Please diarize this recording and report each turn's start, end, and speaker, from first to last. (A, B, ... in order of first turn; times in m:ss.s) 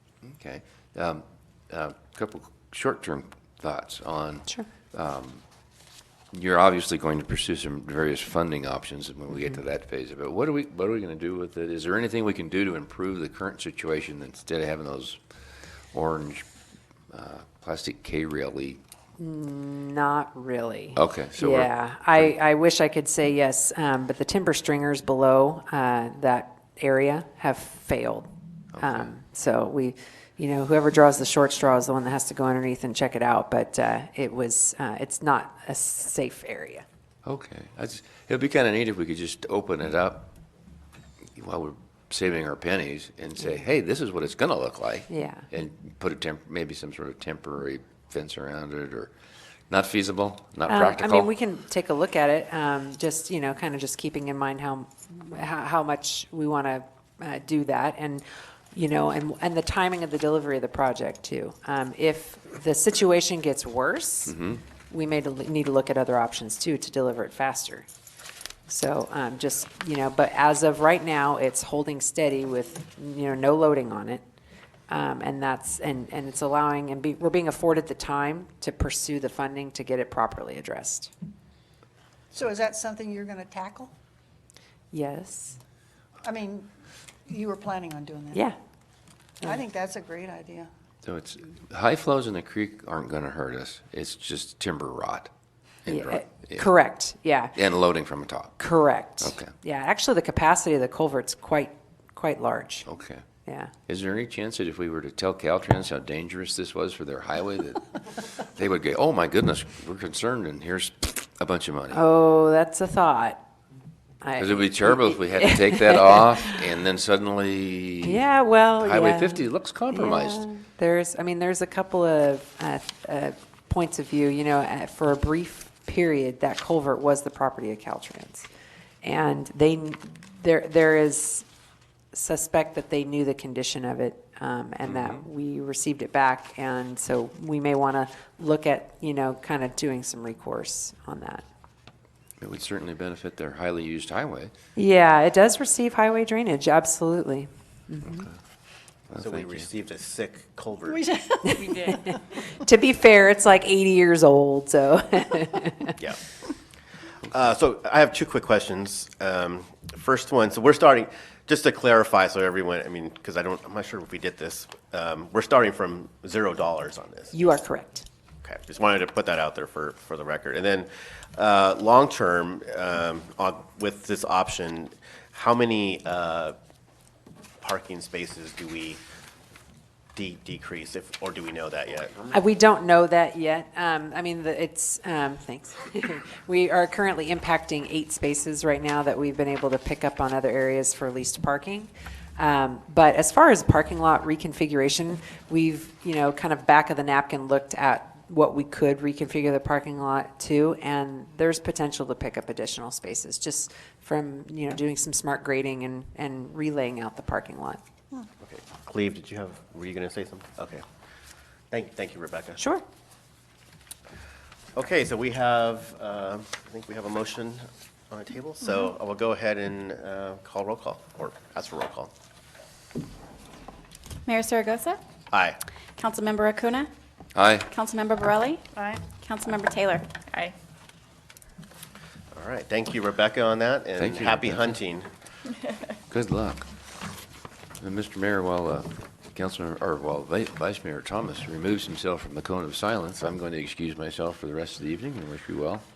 0:00.2-0:05.4 A
0:06.3-0:15.2 A
0:15.9-0:16.4 A
0:17.1-0:18.8 A
0:19.2-0:36.8 B
0:21.0-0:22.3 A
0:28.7-0:29.1 A
0:37.2-0:40.3 A
0:41.4-0:49.1 A
0:45.1-0:45.5 B
0:49.7-0:51.3 A
0:50.7-1:04.4 B
1:04.3-1:04.6 A
1:04.9-1:07.9 B
1:08.7-1:14.2 B
1:14.9-1:21.1 B
1:22.3-1:23.9 C
1:24.9-1:25.6 B
1:26.2-1:26.7 C
1:27.3-1:28.5 C
1:29.4-1:30.7 C
1:31.0-1:35.3 A
1:35.8-1:36.7 A
1:35.9-1:37.6 B
1:37.6-1:38.6 A
1:38.6-1:42.9 B
1:39.2-1:39.5 A
1:42.9-1:43.2 A
1:43.5-1:43.7 B
1:43.9-1:52.0 A
1:51.9-1:53.4 B
1:54.2-1:56.6 B
1:54.4-1:58.2 A
1:58.0-2:08.5 B
1:58.8-2:00.4 A
2:09.0-2:11.5 B
2:12.1-2:21.4 B
2:14.8-2:15.2 A
2:22.4-2:24.5 A
2:24.8-2:28.3 B
2:29.1-2:29.7 A
2:29.1-2:31.0 D
2:30.9-2:32.2 C
2:31.6-2:36.0 B
2:37.3-2:47.3 D
2:47.3-2:48.1 B
2:48.4-2:56.6 D
2:57.6-2:59.0 D
3:00.2-3:02.3 D
3:02.3-3:27.8 B
3:28.4-3:30.8 D
3:31.7-3:32.6 D
3:32.6-3:32.8 B
3:34.8-3:42.1 D
3:44.3-3:45.0 E
3:45.3-3:45.6 D
3:46.0-3:46.9 E
3:47.4-3:47.7 A
3:47.7-3:50.5 E
3:48.8-3:49.0 C
3:52.3-3:55.1 D
3:54.0-3:54.8 A
3:56.1-3:56.7 A
3:57.8-4:05.8 A